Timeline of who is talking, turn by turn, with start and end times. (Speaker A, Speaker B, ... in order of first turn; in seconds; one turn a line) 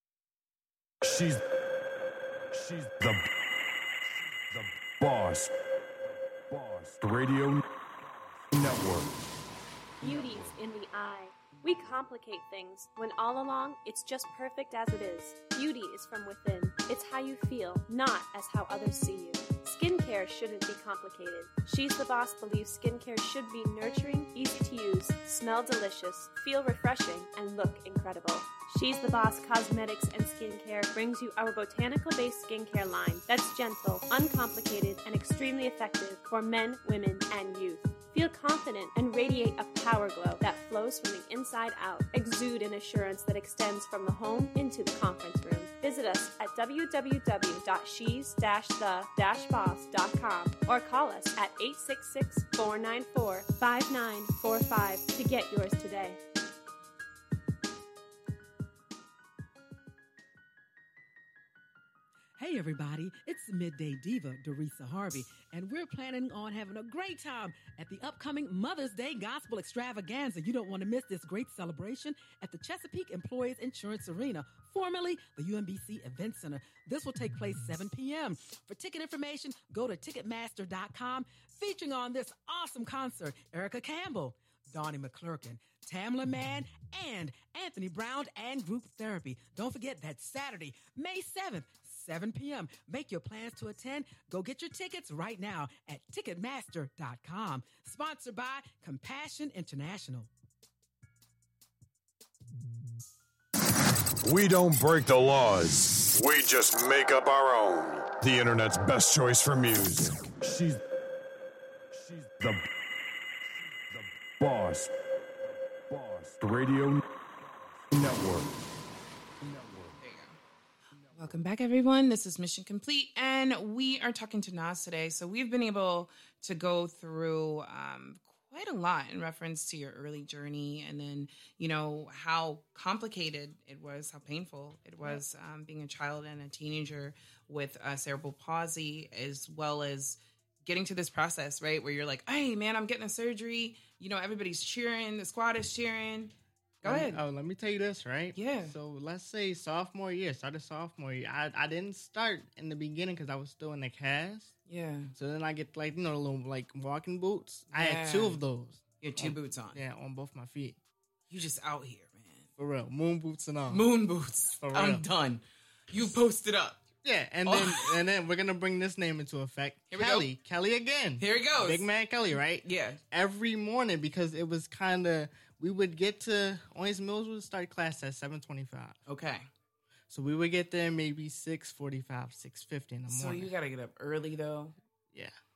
Speaker A: 1.0-1.4
Speaker A: 2.5-3.3
Speaker A: 4.5-5.5
Speaker A: 6.5-9.3
Speaker A: 10.0-10.5
Speaker B: 10.0-56.2
Speaker C: 62.4-100.3
Speaker A: 104.2-110.8
Speaker A: 111.9-112.7
Speaker A: 113.9-114.9
Speaker A: 115.9-118.7
Speaker A: 119.4-120.0
Speaker D: 120.0-120.4
Speaker D: 121.1-147.2
Speaker E: 146.8-154.5
Speaker D: 148.3-148.8
Speaker D: 154.7-155.1
Speaker E: 155.1-160.8
Speaker D: 157.7-158.4
Speaker D: 159.0-159.8
Speaker D: 161.3-162.5
Speaker E: 162.6-163.8
Speaker D: 163.7-166.8
Speaker E: 164.6-165.1
Speaker E: 167.0-179.0
Speaker D: 167.4-168.0
Speaker D: 169.9-170.3
Speaker D: 171.2-171.9
Speaker D: 172.6-173.0
Speaker D: 179.1-179.5
Speaker E: 180.1-183.5
Speaker D: 183.1-184.7